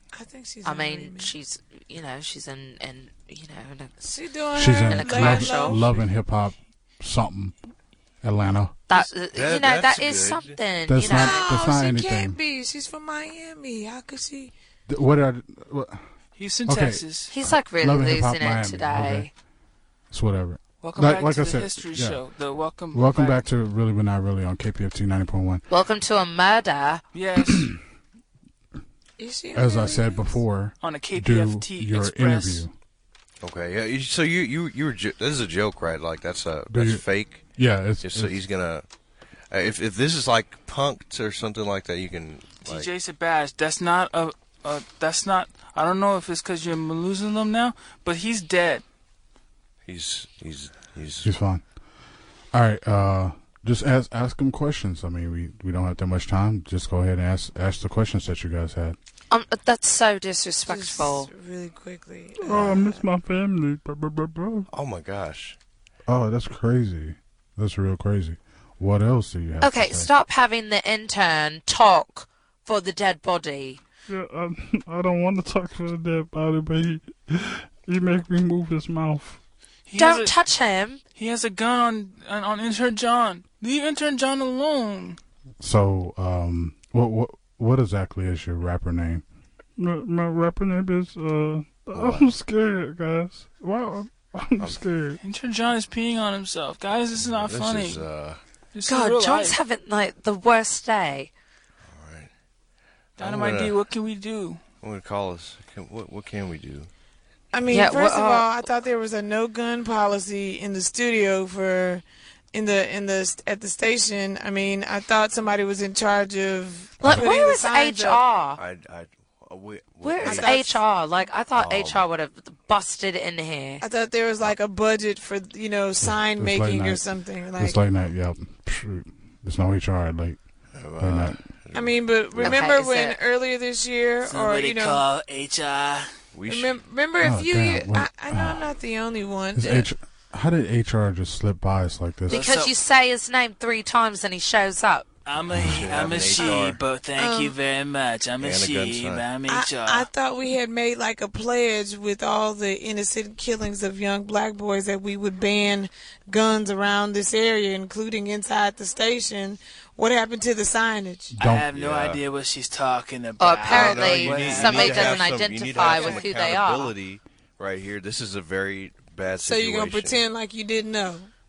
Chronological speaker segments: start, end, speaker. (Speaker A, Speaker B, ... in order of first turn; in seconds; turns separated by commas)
Speaker A: 0.1-1.3, Speaker B: 0.7-3.9, Speaker A: 4.0-6.0, Speaker C: 4.5-7.5, Speaker B: 4.9-5.8, Speaker C: 8.2-8.8, Speaker B: 8.9-11.4, Speaker D: 9.3-10.6, Speaker C: 10.9-12.4, Speaker A: 11.1-14.5, Speaker C: 14.9-16.0, Speaker E: 16.4-17.3, Speaker C: 16.7-19.3, Speaker B: 17.3-19.3, Speaker C: 20.1-22.2, Speaker E: 20.8-23.4, Speaker C: 22.9-25.6, Speaker B: 25.7-27.0, Speaker E: 27.1-27.7, Speaker C: 27.4-27.8, Speaker A: 29.2-30.4, Speaker C: 29.6-32.7, Speaker E: 30.8-32.6, Speaker D: 33.4-37.5, Speaker C: 36.7-38.4, Speaker D: 38.0-38.9, Speaker D: 39.5-42.9, Speaker E: 42.6-48.8, Speaker D: 49.9-51.3, Speaker C: 51.2-51.6, Speaker C: 52.5-59.0, Speaker B: 59.3-61.3, Speaker A: 60.7-63.0, Speaker F: 62.4-64.7, Speaker D: 64.7-65.6, Speaker C: 66.1-70.1, Speaker B: 69.6-73.8, Speaker F: 74.1-79.4, Speaker E: 79.9-80.3, Speaker B: 80.0-81.0, Speaker E: 81.2-85.2, Speaker C: 85.6-89.2, Speaker F: 89.8-95.2, Speaker D: 91.9-92.3, Speaker E: 95.2-98.0, Speaker D: 97.2-98.4, Speaker E: 98.7-99.6, Speaker B: 98.9-101.3, Speaker D: 101.9-102.3, Speaker D: 103.2-103.8, Speaker E: 103.2-104.6, Speaker D: 104.8-106.9, Speaker A: 107.5-118.2, Speaker B: 107.7-108.5, Speaker B: 117.0-118.6, Speaker C: 117.0-117.3, Speaker D: 118.6-120.6, Speaker B: 120.0-123.8, Speaker A: 120.2-120.8, Speaker D: 121.5-122.1, Speaker A: 123.8-127.8, Speaker C: 126.0-127.0, Speaker C: 127.6-130.4, Speaker D: 130.7-132.6, Speaker C: 131.0-131.4, Speaker A: 131.7-135.0, Speaker B: 132.4-133.2, Speaker E: 134.2-136.1, Speaker D: 136.3-136.8, Speaker A: 136.5-139.9, Speaker C: 137.2-138.7, Speaker C: 139.6-142.5, Speaker B: 142.3-145.1, Speaker E: 142.3-142.7, Speaker E: 145.3-150.1, Speaker C: 145.5-145.9, Speaker D: 145.6-146.8, Speaker A: 146.3-146.7, Speaker A: 147.2-147.6, Speaker D: 148.4-149.2, Speaker A: 149.5-161.3, Speaker C: 161.3-161.7, Speaker E: 161.4-165.3, Speaker D: 161.7-162.2, Speaker B: 163.4-166.9, Speaker D: 163.7-170.2, Speaker A: 164.8-165.2, Speaker A: 165.8-166.3, Speaker A: 169.4-171.3